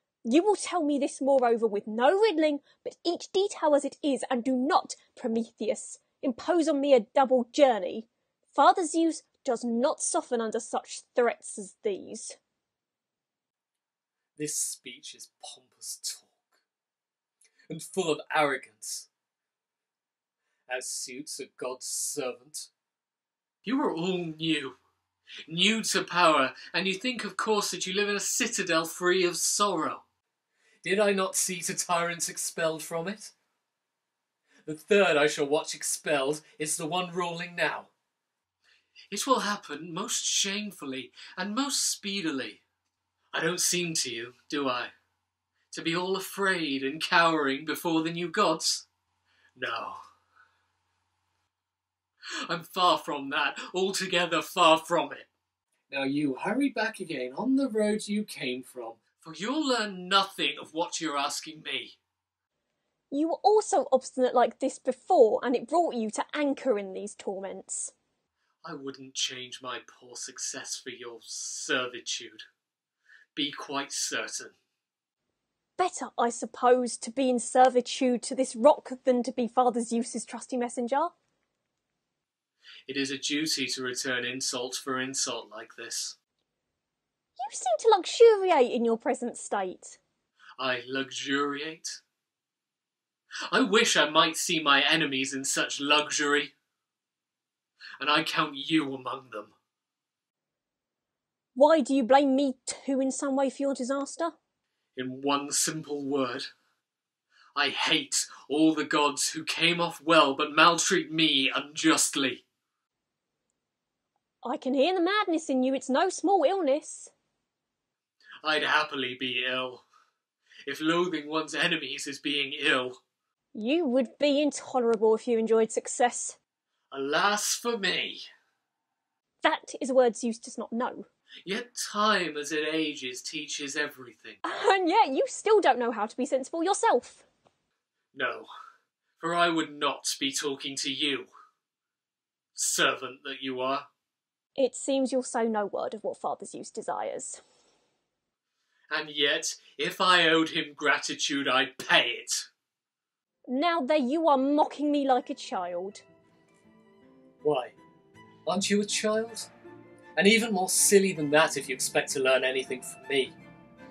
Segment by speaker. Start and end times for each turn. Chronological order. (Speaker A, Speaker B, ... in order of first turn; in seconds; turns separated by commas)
Speaker A: 0.3-12.4, Speaker B: 14.4-16.5, Speaker B: 17.7-19.1, Speaker B: 20.7-22.7, Speaker B: 23.6-24.8, Speaker B: 25.5-30.0, Speaker B: 30.8-33.3, Speaker B: 34.7-37.9, Speaker B: 39.1-42.6, Speaker B: 43.3-44.9, Speaker B: 45.7-48.9, Speaker B: 49.6-50.0, Speaker B: 52.5-55.3, Speaker B: 55.9-62.0, Speaker A: 63.1-67.9, Speaker B: 68.6-72.5, Speaker B: 73.3-74.6, Speaker A: 75.8-81.1, Speaker B: 82.9-86.2, Speaker A: 87.4-90.0, Speaker B: 90.6-92.0, Speaker B: 93.5-96.5, Speaker B: 98.0-99.5, Speaker A: 101.5-104.3, Speaker B: 105.0-106.5, Speaker B: 107.6-112.5, Speaker A: 114.4-117.1, Speaker B: 118.4-119.8, Speaker B: 120.7-123.0, Speaker A: 123.5-126.4, Speaker B: 126.9-128.3, Speaker A: 129.4-131.1, Speaker B: 131.4-134.4, Speaker A: 134.4-137.2, Speaker B: 138.1-138.5, Speaker B: 139.2-141.3, Speaker B: 142.6-143.9, Speaker A: 144.6-147.4, Speaker B: 148.9-152.5, Speaker A: 153.5-156.0, Speaker B: 157.4-157.8, Speaker B: 158.5-159.5, Speaker B: 160.2-163.4